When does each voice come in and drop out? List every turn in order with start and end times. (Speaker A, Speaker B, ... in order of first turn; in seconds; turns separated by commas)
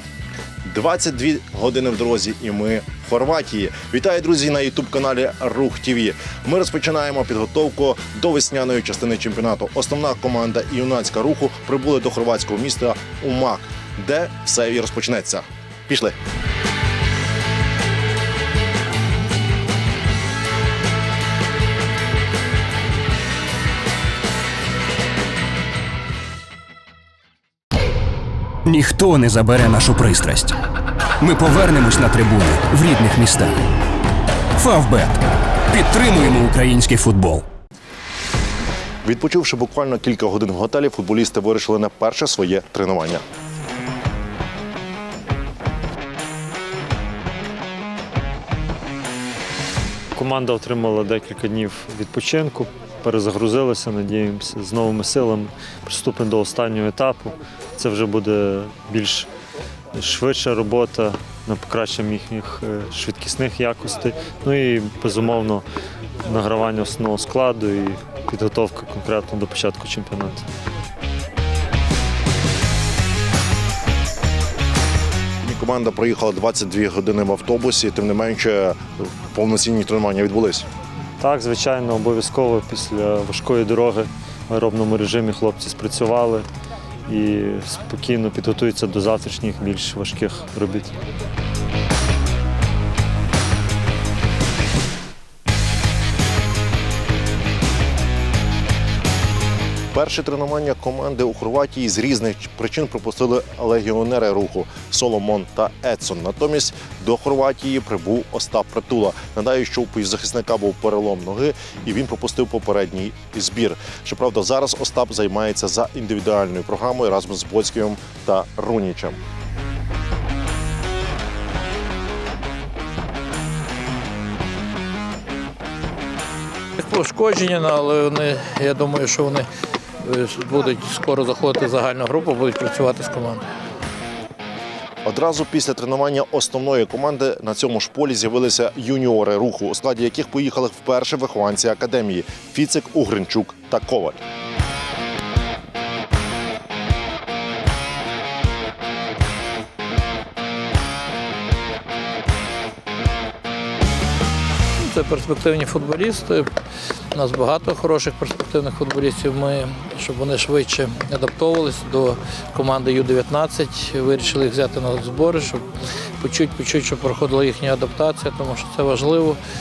Speaker A: 0.6-16.1, Speaker B: 28.6-30.6, Speaker B: 31.2-33.6, Speaker B: 34.5-37.5, Speaker A: 39.0-43.2, Speaker C: 50.1-59.3, Speaker C: 59.9-65.7, Speaker C: 66.2-70.5, Speaker A: 75.4-80.7, Speaker C: 81.2-86.5, Speaker C: 87.1-90.9, Speaker A: 99.9-119.2, Speaker D: 126.8-129.5, Speaker D: 130.0-133.4, Speaker A: 135.0-144.2, Speaker D: 154.8-156.5, Speaker D: 157.1-169.4